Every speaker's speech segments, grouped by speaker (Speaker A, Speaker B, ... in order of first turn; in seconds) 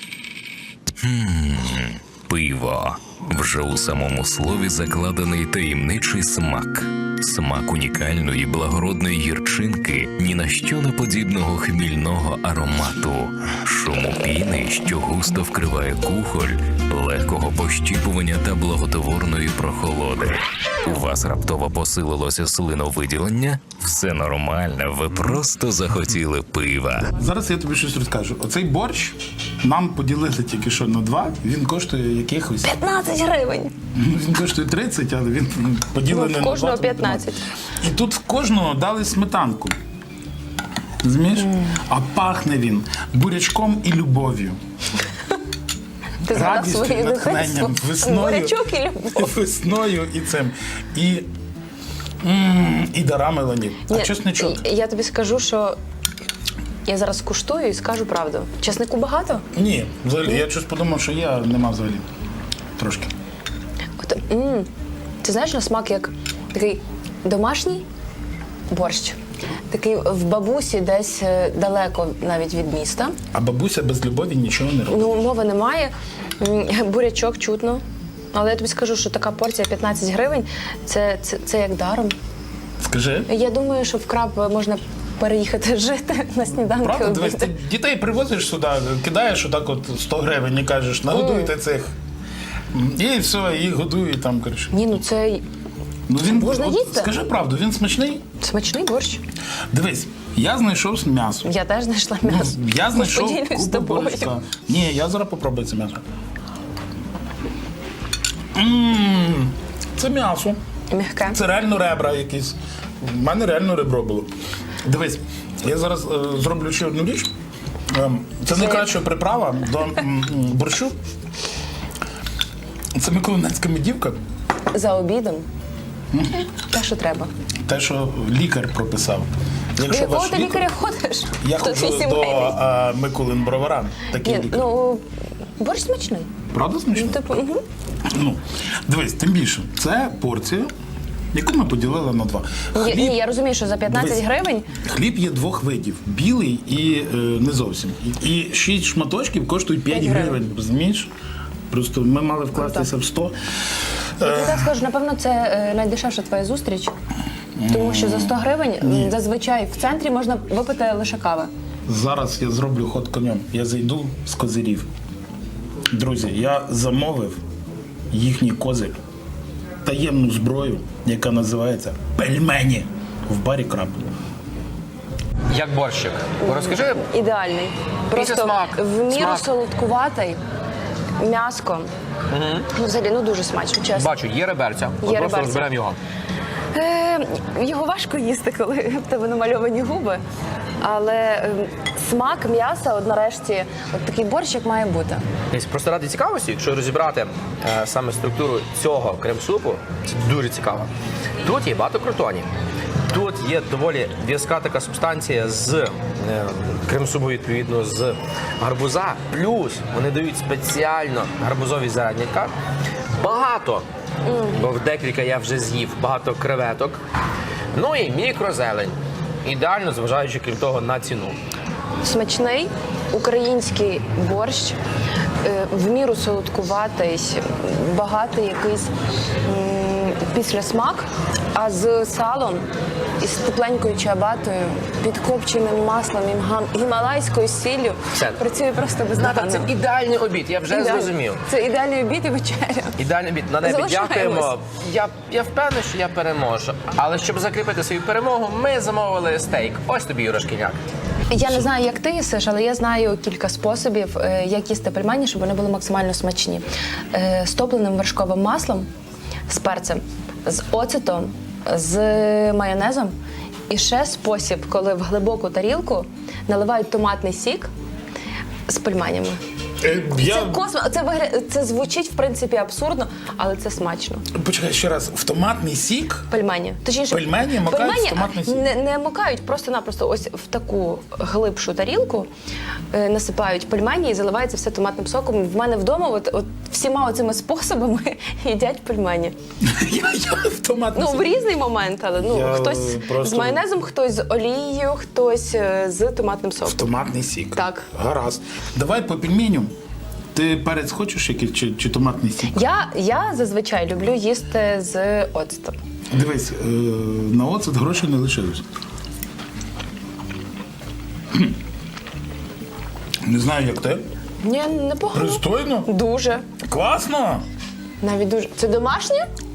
Speaker A: 1.0-27.1
Speaker B: 27.1-32.7, 33.9-37.2, 37.8-39.8, 41.0-44.6, 46.3-51.3, 52.2-54.6, 59.5-62.0, 62.8-63.1, 73.3-75.1, 82.8-83.3, 86.8-91.9, 92.7-95.0, 96.1-98.2, 99.7-101.5, 102.2-106.0, 108.5-110.6, 111.3-114.3, 114.8-117.3, 117.9-120.9, 122.9-124.2, 126.1-126.4, 127.7-130.7, 131.4-134.7, 136.5-137.4, 138.1-140.7, 141.3-143.2, 143.9-144.2, 144.8-151.1, 151.7-153.3, 154.2-154.7, 157.6-159.1, 161.9-164.9, 165.9-167.4, 168.1-168.9, 169.8-174.0, 269.8-270.6, 274.3-276.3, 277.1-278.6, 289.6-291.3, 292.2-293.6, 296.6-299.7, 300.3-302.6, 306.1-308.6, 313.2-314.0, 315.1-315.9, 316.6-317.4
Speaker C: 32.6-33.7, 36.1-37.4, 46.3-49.3, 53.9-55.8, 56.9-59.4, 64.0-64.7, 65.2-67.8, 68.7-69.2, 69.7-73.1, 74.9-77.8, 78.3-82.1, 83.3-87.5, 91.1-91.5, 94.7-95.4, 96.2-97.1, 98.4-99.2, 101.4-104.3, 110.9-111.4, 118.5-118.9, 124.7-125.5, 126.5-127.3, 129.8-132.5, 134.2-135.0, 135.6-136.3, 136.9-137.6, 142.7-144.7, 149.9-150.4, 152.6-152.9, 154.2-156.9, 157.7-161.5, 176.4-180.4, 181.2-181.9, 182.7-184.1, 185.0-185.7, 186.7-190.2, 190.8-195.2, 214.2-214.6, 222.0-224.8, 225.4-228.9, 229.4-232.6, 233.2-239.7, 240.7-242.9, 243.6-244.5, 251.3-258.9, 259.5-263.1, 263.7-267.7, 268.7-269.4, 270.0-274.2, 276.3-282.3, 282.9-289.3, 290.9-296.9, 297.5-297.9, 302.5-305.8, 314.4-316.4, 318.0-319.3
Speaker D: 175.5-177.0, 178.1-179.5, 182.3-182.7, 183.9-186.0, 195.5-200.9, 201.4-202.5, 203.1-212.5, 213.2-213.8, 214.5-217.0, 217.7-221.4, 238.1-238.4, 239.2-241.4, 243.0-250.8